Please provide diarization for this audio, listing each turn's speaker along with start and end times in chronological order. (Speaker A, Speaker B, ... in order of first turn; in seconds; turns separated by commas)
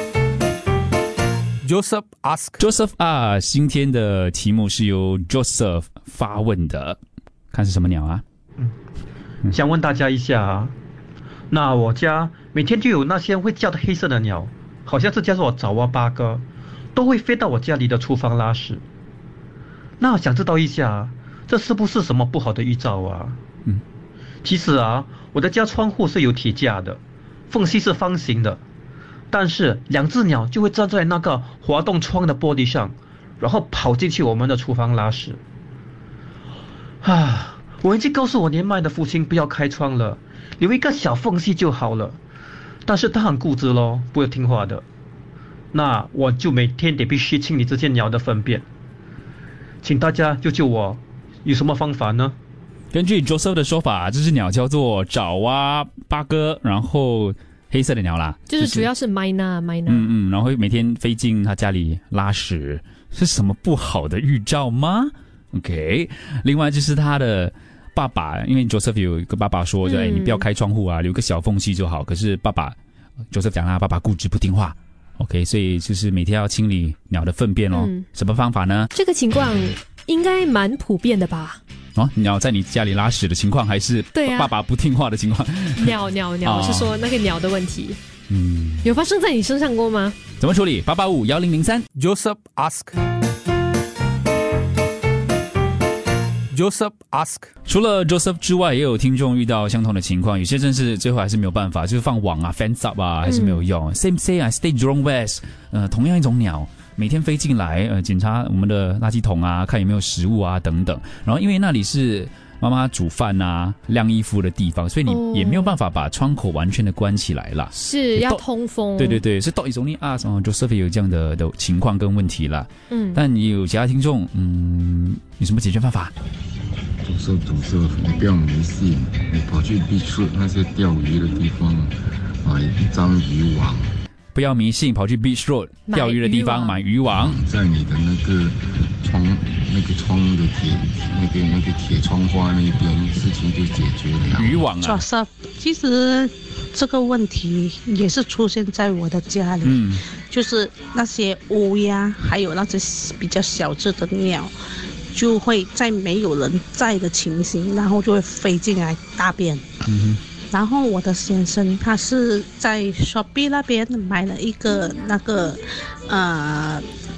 Speaker A: 1.6-2.6, Speaker B: 2.6-7.0, Speaker B: 7.5-8.2, Speaker C: 9.5-10.7, Speaker C: 11.5-18.8, Speaker C: 20.0-23.4, Speaker C: 24.4-28.6, Speaker C: 29.3-35.4, Speaker C: 37.0-42.2, Speaker C: 42.9-44.8, Speaker C: 45.7-48.6, Speaker C: 49.8-52.4, Speaker B: 52.9-58.9, Speaker D: 58.5-60.1, Speaker B: 59.9-72.8, Speaker D: 69.8-70.5, Speaker B: 73.3-78.9, Speaker D: 77.7-78.1, Speaker D: 78.9-81.6, Speaker B: 82.0-86.9, Speaker D: 84.1-84.5, Speaker D: 85.8-88.0, Speaker B: 88.3-88.9, Speaker D: 88.8-90.2, Speaker B: 90.4-91.8, Speaker A: 92.0-93.0, Speaker A: 96.5-97.5, Speaker B: 97.7-118.4, Speaker D: 103.2-103.6, Speaker D: 115.1-115.7, Speaker D: 117.7-119.2, Speaker B: 119.0-126.1, Speaker D: 122.9-123.2, Speaker E: 127.0-133.9, Speaker B: 134.3-137.4, Speaker D: 135.9-136.8, Speaker E: 137.1-144.7, Speaker B: 144.3-145.0, Speaker F: 144.8-154.5, Speaker B: 149.6-150.0, Speaker F: 155.1-159.7, Speaker B: 159.8-160.2, Speaker F: 160.5-166.8